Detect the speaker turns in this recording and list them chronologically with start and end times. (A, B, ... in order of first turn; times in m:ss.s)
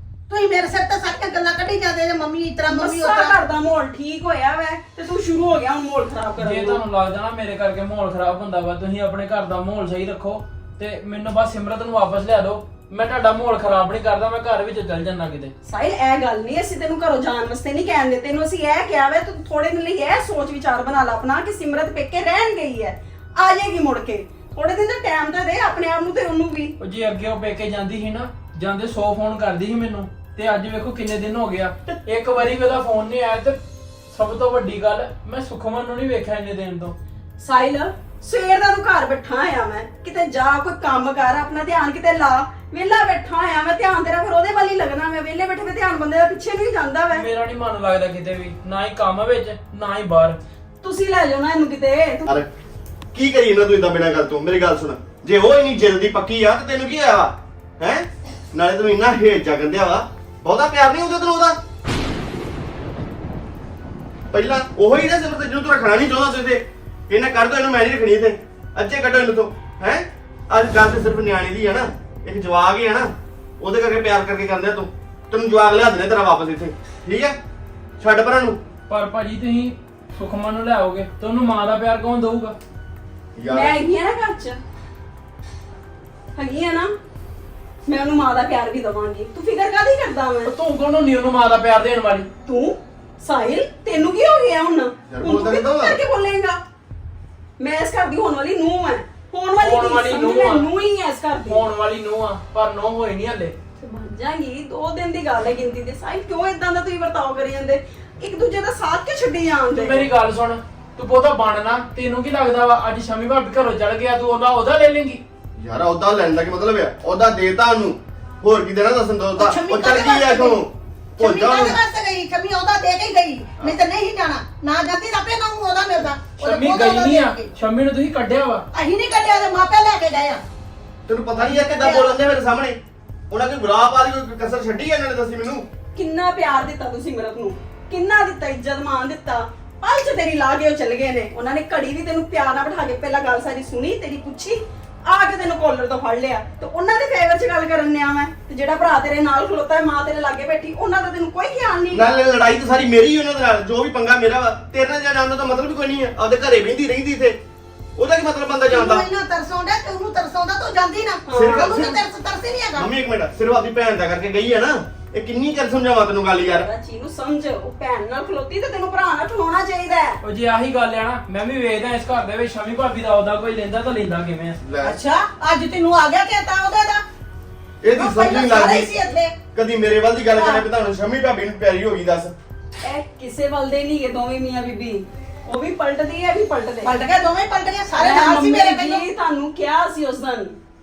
0:00.3-0:03.3 A
0:02.7-0:06.8 B
0:06.4-0:15.5 C
0:15.6-0:26.7 B
0:26.8-0:33.6 C
0:34.1-0:36.9 C
0:37.4-0:47.2 B
0:47.1-0:50.4 C
0:50.8-0:52.3 B
0:53.1-1:01.6 D
1:04.3-1:17.4 D
1:18.0-1:18.6 D
1:18.9-1:22.6 C
1:23.4-1:23.7 D
1:23.5-1:24.6 B
1:26.3-1:26.9 B
1:27.9-1:30.5 B
1:30.4-1:32.3 C
1:32.4-1:36.6 B
1:35.1-1:36.0 D
1:37.6-1:41.7 B
1:39.6-1:40.7 C
1:41.5-1:43.5 C
1:43.8-1:50.1 B
1:49.7-1:55.2 C
1:55.6-2:01.8 D
1:59.4-2:00.6 A
2:01.2-2:07.5 A
2:06.4-2:08.6 C
2:08.7-2:10.4 A
2:11.1-2:12.8 D
2:11.4-2:12.1 A
2:13.3-2:15.6 D
2:15.9-2:32.2 B
2:31.9-2:37.4 D
2:38.0-2:39.0 D
2:38.7-2:42.9 A
2:41.3-2:41.8 B
2:41.3-2:42.0 D
2:42.8-2:46.6 D
2:46.4-2:50.2 B
2:50.2-2:54.6 C
2:54.6-2:55.0 D
2:54.8-2:57.0 A
2:57.8-2:58.9 D
2:57.9-2:59.4 A
2:59.5-3:02.3 D
3:00.3-3:00.6 A
3:02.8-3:07.0 B
3:06.8-3:09.0 A
3:08.0-3:10.5 B